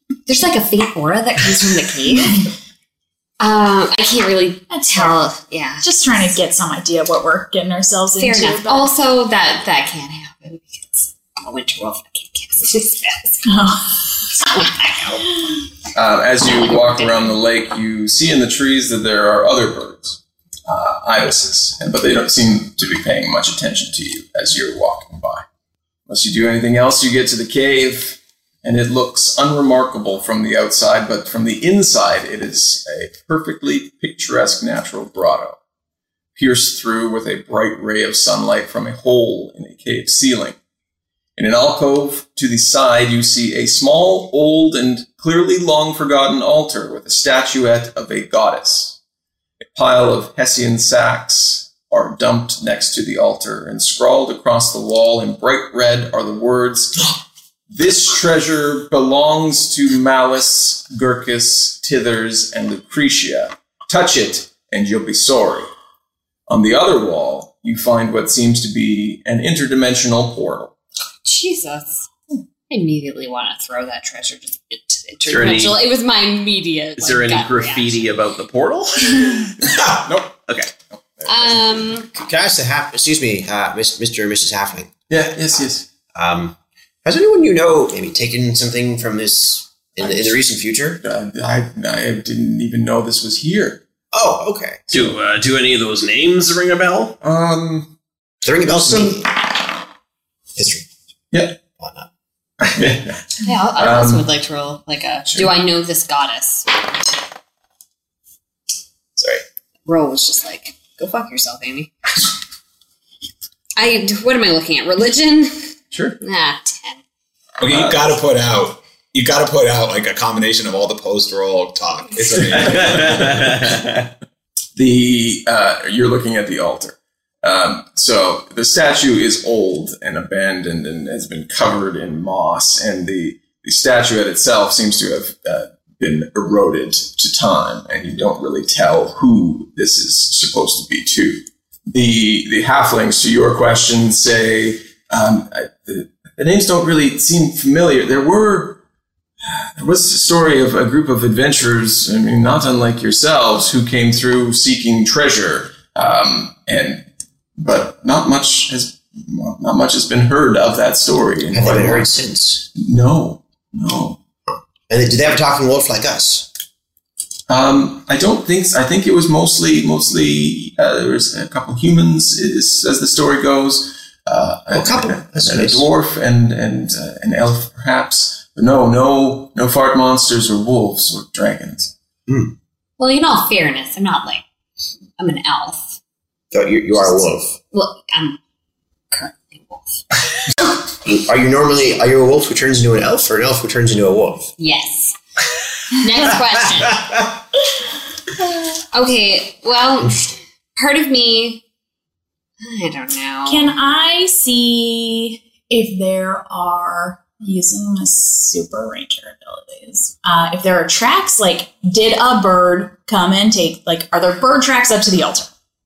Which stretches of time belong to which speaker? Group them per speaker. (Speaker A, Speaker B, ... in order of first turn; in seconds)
Speaker A: 0.3-2.5, 3.4-6.3, 8.2-13.5, 14.4-15.3, 16.4-17.3, 71.2-72.1, 72.7-78.1, 81.3-82.1, 103.4-106.8, 109.8-111.9, 113.8-117.0, 183.0-184.4, 185.2-186.0, 187.7-188.4, 189.1-190.0, 194.6-195.2, 196.0-197.2, 198.9-201.6, 202.6-203.7
Speaker B: 4.7-8.9, 13.4-14.0, 203.4-215.5
Speaker C: 15.9-25.4, 26.1-35.6, 36.3-40.6, 41.4-49.0, 49.6-57.0, 57.7-65.7, 66.5-70.7, 80.0-80.4, 80.9-81.9, 85.1-85.8, 90.0-90.4, 91.0-93.8, 94.9-95.2, 97.2-97.9, 98.7-99.1, 101.3-101.6, 102.6-104.3, 115.9-116.2, 117.6-118.2, 124.7-148.8, 149.4-162.1, 162.7-164.2, 167.5-181.9
Speaker D: 75.2-75.8, 77.0-79.5, 80.5-80.7, 94.9-97.2, 122.5-124.1
Speaker E: 79.7-79.9, 117.6-123.6
Speaker F: 82.2-84.9, 86.1-91.0, 94.1-94.9, 98.4-99.3, 100.5-100.9, 101.8-102.1, 161.5-162.7, 164.5-166.5, 174.7-175.8, 182.3-182.5, 186.5-187.6, 191.0-194.5